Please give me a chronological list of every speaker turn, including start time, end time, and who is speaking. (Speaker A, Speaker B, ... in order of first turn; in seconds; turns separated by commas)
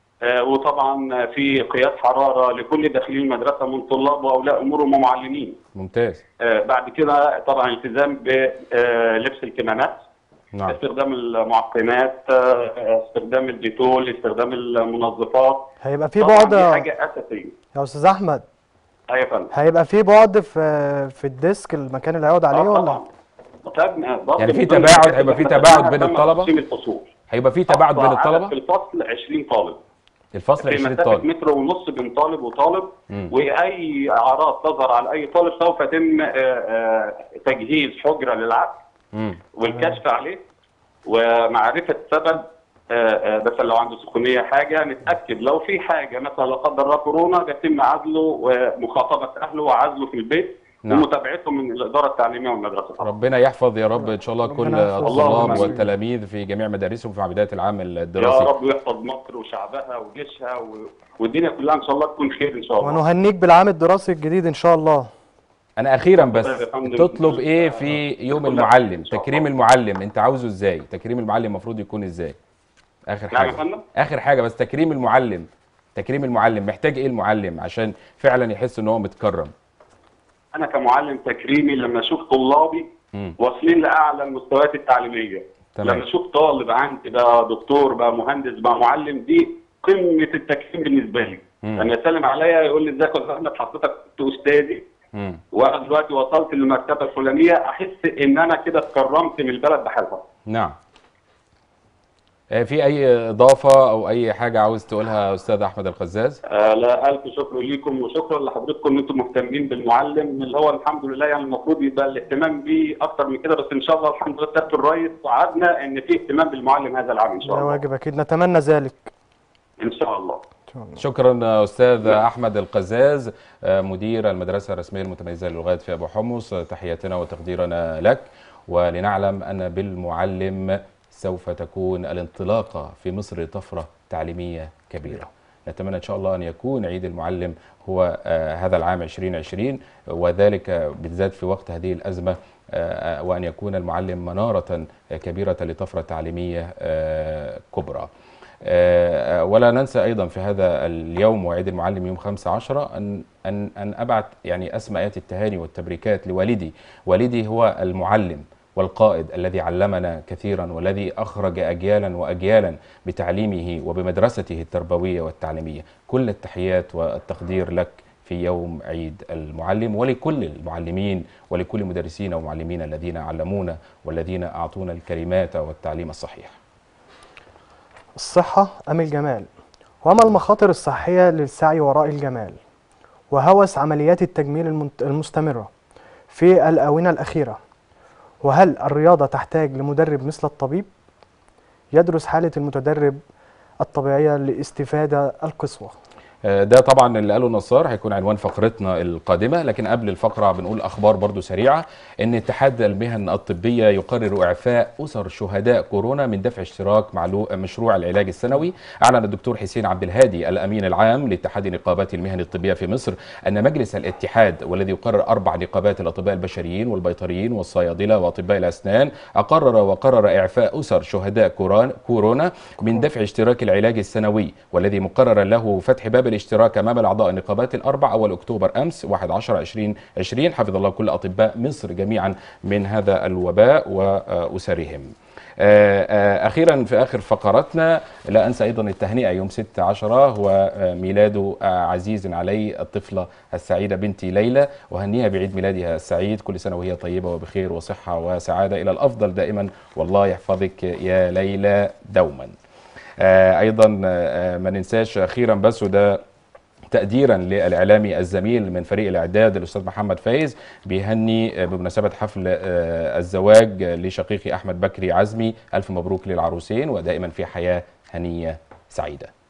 Speaker A: 0.2-5.6, Speaker B: 5.8-6.2, Speaker A: 6.4-10.0, Speaker A: 10.7-15.7, Speaker C: 15.8-16.9, Speaker A: 16.2-17.5, Speaker C: 17.7-18.4, Speaker A: 19.1-19.5, Speaker C: 19.5-23.0, Speaker A: 22.5-23.1, Speaker A: 23.6-27.1, Speaker B: 24.4-26.5, Speaker B: 27.3-28.5, Speaker A: 27.7-29.8, Speaker B: 30.3-31.3, Speaker A: 30.6-38.8, Speaker B: 39.1-39.4, Speaker A: 39.6-40.4, Speaker A: 41.1-53.1, Speaker B: 53.0-58.5, Speaker C: 54.1-55.9, Speaker A: 55.0-55.8, Speaker A: 58.2-63.0, Speaker C: 62.8-65.1, Speaker B: 65.8-72.4, Speaker A: 66.2-69.5, Speaker B: 73.1-79.5, Speaker A: 73.3-73.8, Speaker A: 80.5-94.8, Speaker B: 85.8-86.0, Speaker B: 95.1-95.4, Speaker A: 95.5-100.2, Speaker B: 100.5-100.8, Speaker B: 102.5-106.4, Speaker A: 106.5-117.8, Speaker C: 117.4-119.1, Speaker A: 119.8-120.4, Speaker C: 120.7-121.0, Speaker B: 121.0-148.1, Speaker B: 148.6-176.6, Speaker C: 178.2-179.5, Speaker C: 180.0-182.6, Speaker C: 183.3-185.7, Speaker C: 186.3-187.6, Speaker C: 188.4-190.9, Speaker C: 191.9-193.2, Speaker C: 193.8-195.9, Speaker B: 196.5-252.5, Speaker B: 253.2-256.2, Speaker B: 256.9-269.3